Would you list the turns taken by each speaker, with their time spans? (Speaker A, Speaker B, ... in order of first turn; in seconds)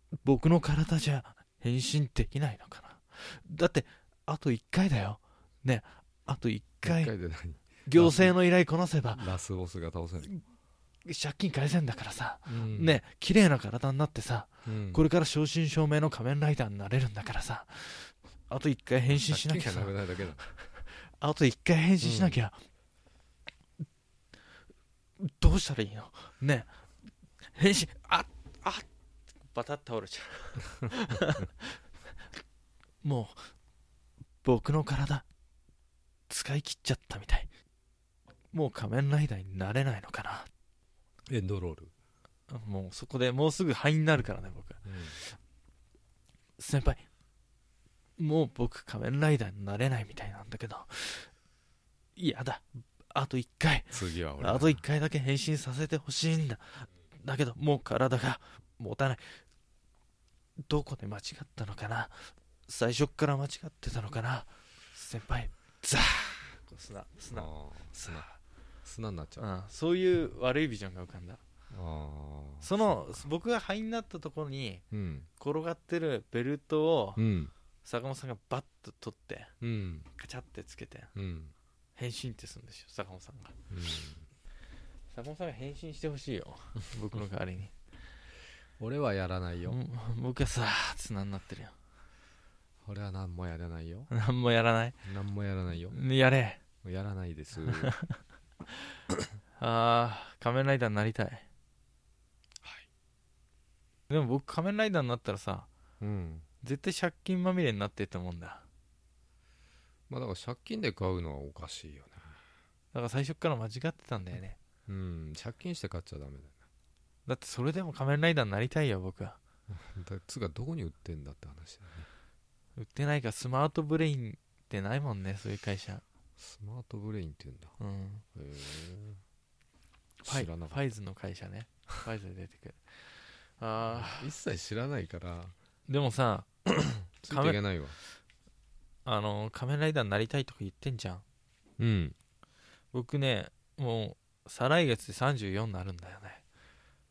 Speaker A: 0.2-7.1, 7.8-9.2, 11.0-22.6, 25.2-26.7, 27.5-28.9, 29.5-31.7, 33.0-33.4, 34.4-35.2, 36.3-37.5, 38.5-40.5, 42.5-45.4, 46.6-47.0, 48.2-51.3, 52.1-59.4, 60.7-68.4, 69.4-71.4, 72.6-74.8, 75.4-77.2, 77.8-79.5, 80.1-81.1, 82.0-83.5, 85.1-87.7, 89.7-91.7, 94.1-95.0, 95.9-96.6, 97.8-98.2, 99.6-101.4, 104.1-105.7, 106.6-108.6, 112.9-114.6, 117.2-119.4, 122.8-126.0, 127.8-128.2, 130.2-134.3, 135.9-137.6, 139.0-141.2, 142.9-146.4
Speaker B: 6.8-8.4, 9.1-10.3, 12.4-13.0, 14.6-15.0, 19.1-20.4, 22.0-22.4, 41.3-41.9, 44.8-45.2, 53.9-54.8, 67.3-68.3, 68.8-69.4, 71.7-73.2, 74.9-75.3, 77.2-77.5, 79.6-80.1, 81.1-81.5, 83.7-84.3, 88.8-89.8, 92.8-94.1, 95.0-96.0, 96.8-97.9, 102.6-102.9, 106.0-106.5, 110.1-112.4, 114.9-116.6, 119.7-122.1, 126.4-127.8, 128.3-129.2, 130.2-130.8, 133.9-135.5, 137.2-137.9, 141.8-142.1